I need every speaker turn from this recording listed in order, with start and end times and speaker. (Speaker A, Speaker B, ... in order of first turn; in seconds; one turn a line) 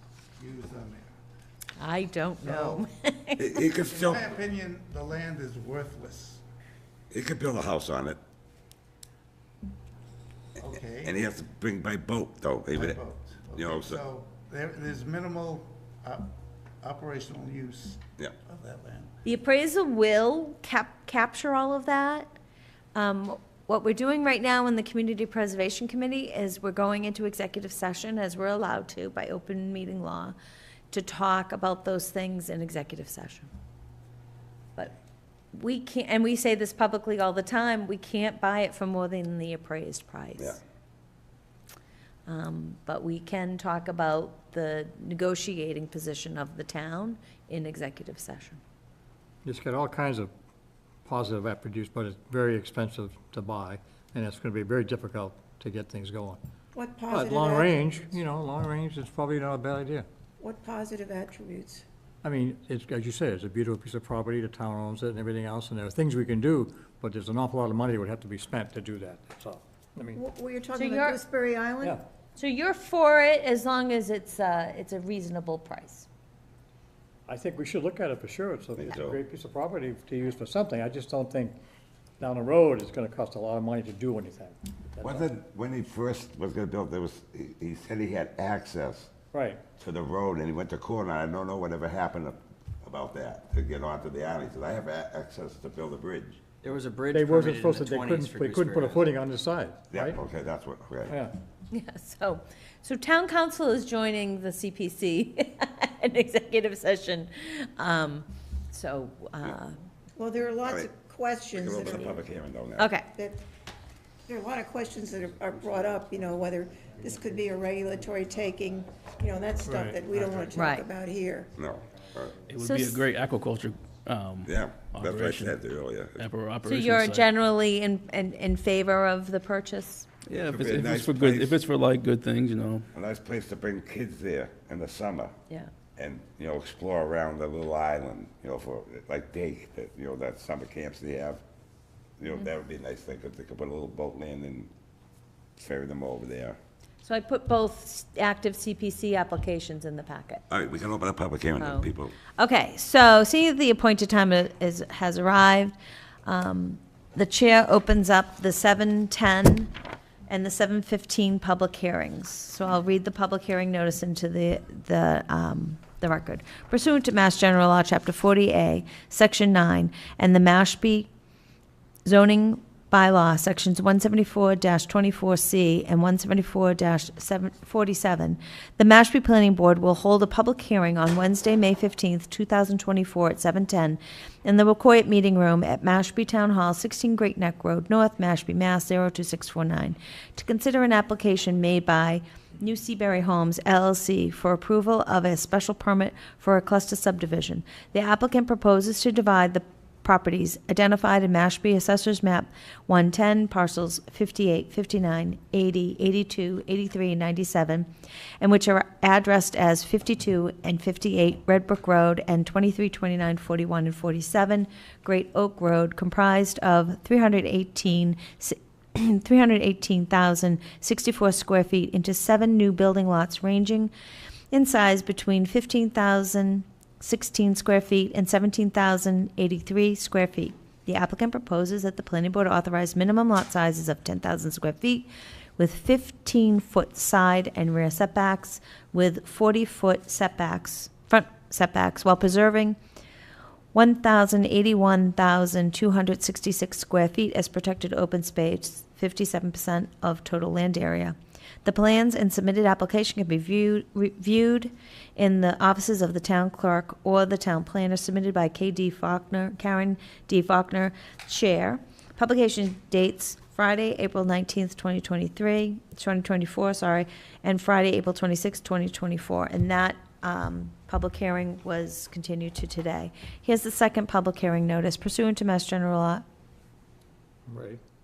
Speaker A: 0.3-1.1
Speaker B: 1.8-3.6
Speaker A: 2.4-2.8
Speaker C: 3.4-4.3
Speaker A: 3.8-6.4
Speaker C: 7.1-8.2
Speaker A: 10.6-11.2
Speaker C: 11.0-13.0
Speaker A: 12.7-19.2
Speaker C: 13.5-14.0
Speaker B: 19.2-22.3
Speaker B: 22.9-30.3
Speaker B: 30.9-33.5
Speaker B: 35.5-40.6
Speaker B: 42.3-48.6
Speaker D: 49.4-50.3
Speaker D: 51.0-56.4
Speaker E: 56.7-58.0
Speaker D: 57.1-60.1
Speaker E: 60.4-61.8
Speaker D: 62.2-70.2
Speaker E: 70.1-72.0
Speaker B: 70.7-71.2
Speaker B: 72.3-76.1
Speaker D: 77.3-81.6
Speaker C: 78.8-79.2
Speaker D: 82.2-85.2
Speaker C: 85.0-89.1
Speaker D: 89.3-89.6
Speaker C: 89.8-96.4
Speaker F: 96.6-99.2
Speaker D: 97.1-100.2
Speaker C: 99.9-101.1
Speaker D: 101.1-101.3
Speaker B: 101.7-109.8
Speaker E: 110.2-112.2
Speaker C: 110.6-110.9
Speaker C: 111.5-112.9
Speaker B: 112.8-113.1
Speaker E: 113.1-113.4
Speaker E: 114.3-121.5
Speaker D: 119.7-120.0
Speaker B: 120.5-120.9
Speaker C: 121.6-122.3
Speaker G: 122.5-125.5
Speaker B: 122.6-123.0
Speaker C: 124.5-126.3
Speaker G: 126.2-127.2
Speaker B: 126.7-130.1
Speaker G: 130.3-132.9
Speaker C: 130.4-131.6
Speaker C: 132.9-135.3
Speaker C: 136.0-141.4
Speaker C: 142.2-144.7
Speaker C: 145.6-146.6
Speaker B: 147.0-150.4
Speaker C: 150.5-152.1
Speaker B: 151.6-159.7
Speaker B: 160.3-171.1
Speaker B: 172.1-207.8
Speaker B: 208.4-223.9
Speaker B: 224.5-242.8
Speaker B: 243.7-276.2
Speaker D: 277.5-277.8